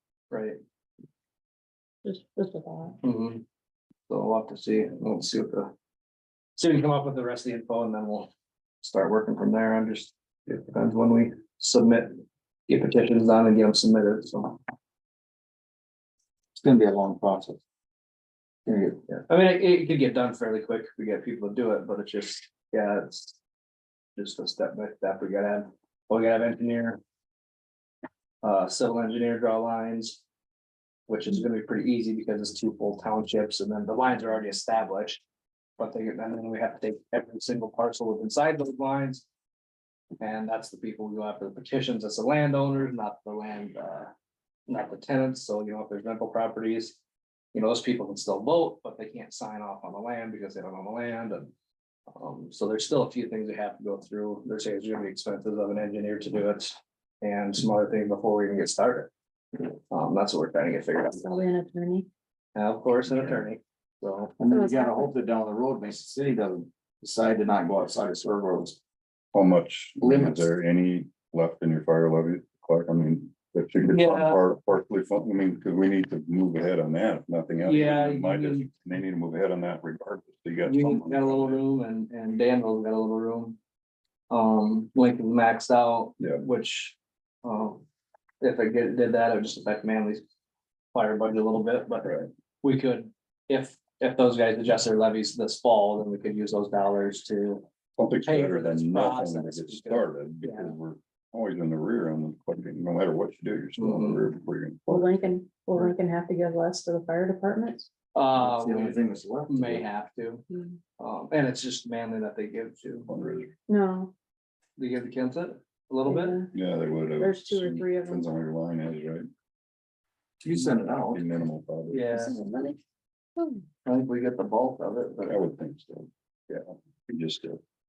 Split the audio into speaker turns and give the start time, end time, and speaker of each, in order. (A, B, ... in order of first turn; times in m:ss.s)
0:00.3-0:00.6 A
0:02.0-0:03.0 B
0:03.0-0:03.4 A
0:04.1-0:05.7 A
0:06.6-0:14.6 A
0:16.6-0:17.6 C
0:18.6-0:19.0 C
0:19.1-0:23.4 A
0:24.2-0:27.0 A
0:28.4-0:30.2 A
0:31.1-0:35.2 A
0:35.8-0:39.2 A
0:40.2-0:44.1 A
0:44.7-0:47.0 A
0:47.5-0:51.5 A
0:52.2-0:59.1 A
0:59.9-1:01.3 A
1:01.1-1:02.1 B
1:02.6-1:04.3 A
1:04.4-1:08.8 C
1:04.5-1:05.1 B
1:09.3-1:21.6 D
1:10.0-1:10.5 C
1:13.8-1:14.4 A
1:17.6-1:18.7 A
1:20.6-1:23.6 A
1:24.3-1:27.8 A
1:28.4-1:30.2 A
1:30.9-1:32.1 A
1:32.0-1:32.3 D
1:32.6-1:37.7 A
1:38.0-1:45.2 D
1:38.2-1:40.8 A
1:43.8-1:44.2 A
1:44.9-1:47.9 B
1:48.1-1:50.4 A
1:48.4-1:49.9 C
1:50.5-1:50.8 B
1:51.0-1:53.1 A
1:53.1-1:53.5 D
1:53.7-1:54.1 B
1:54.8-1:56.4 A
1:56.1-1:56.5 B
1:56.5-1:59.3 D
1:57.2-1:58.3 B
2:00.4-2:01.2 C
2:00.6-2:02.0 D
2:01.9-2:02.4 A
2:02.1-2:02.8 B
2:03.4-2:03.6 B
2:03.8-2:05.4 A
2:05.2-2:07.6 D